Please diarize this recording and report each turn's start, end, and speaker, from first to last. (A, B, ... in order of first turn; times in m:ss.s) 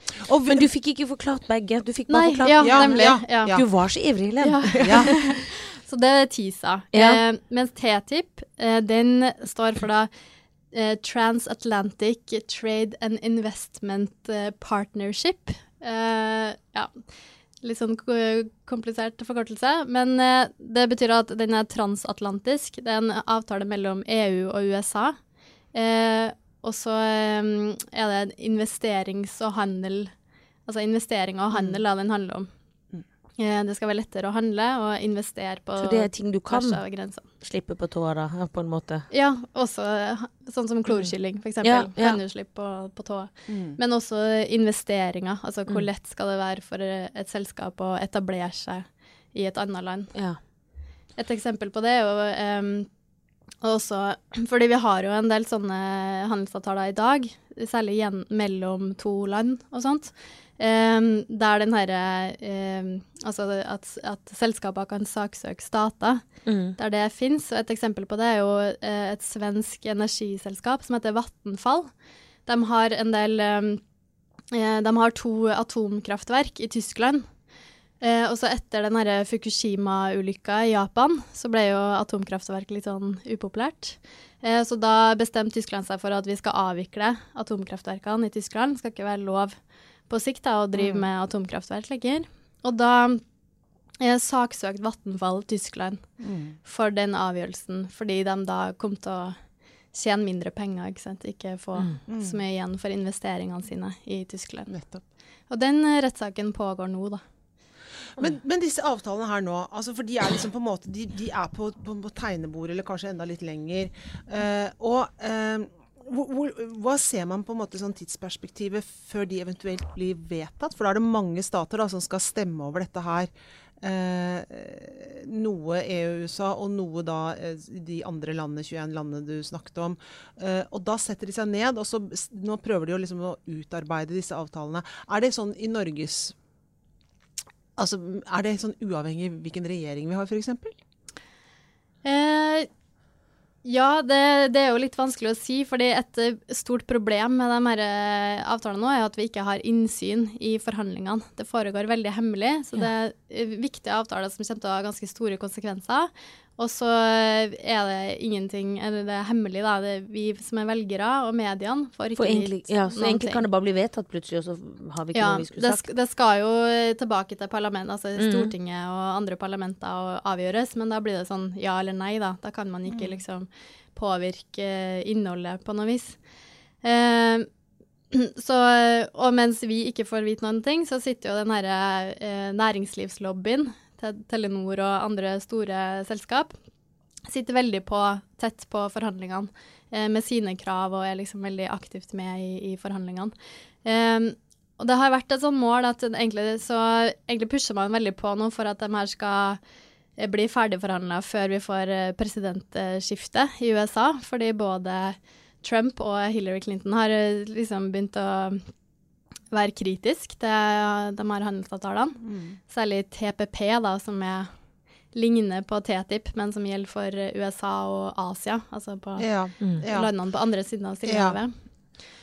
0:00.2-0:00.7 A
0:00.5-0:05.4 B
0:02.1-0:03.6 C
0:02.6-0:03.6 A
0:04.4-0:10.1 C
0:04.8-0:05.1 A
0:06.9-0:07.2 B
0:10.7-0:16.9 C
0:17.6-0:25.2 C
0:25.7-0:30.1 C
0:30.7-0:32.5 C
0:33.4-0:37.3 C
0:35.8-0:36.8 B
0:37.4-0:39.1 B
0:39.1-0:50.1 C
0:41.6-0:42.2 B
0:43.5-0:43.8 A
0:50.1-0:50.4 B
0:51.2-0:52.9 C
0:53.6-1:06.2 C
1:06.5-1:06.8 B
1:06.8-1:11.9 C
1:12.5-1:13.8 C
1:14.5-1:17.3 C
1:18.0-1:29.6 C
1:30.1-1:33.2 C
1:30.8-1:31.0 A
1:34.0-1:36.0 C
1:36.2-1:36.6 A
1:36.6-1:39.4 C
1:39.9-1:44.7 C
1:42.1-1:42.4 A
1:44.7-1:45.0 A
1:45.5-1:47.2 C
1:48.2-2:03.3 A
2:03.8-2:16.4 A
2:17.8-2:20.8 A
2:22.0-2:22.7 C
2:23.6-2:43.4 C
2:42.2-2:45.8 B
2:45.1-2:56.2 C
2:48.2-2:48.5 B
2:52.9-2:53.2 A
2:56.8-2:57.5 C
2:58.1-3:06.6 C
3:07.3-3:13.3 C
3:13.8-3:19.6 C
3:20.2-3:28.6 C
3:29.5-3:34.5 C
3:32.2-3:32.6 A
3:35.1-3:39.3 C
3:39.2-3:40.1 A
3:39.6-3:39.8 B
3:39.8-3:41.5 C
3:41.1-3:41.4 A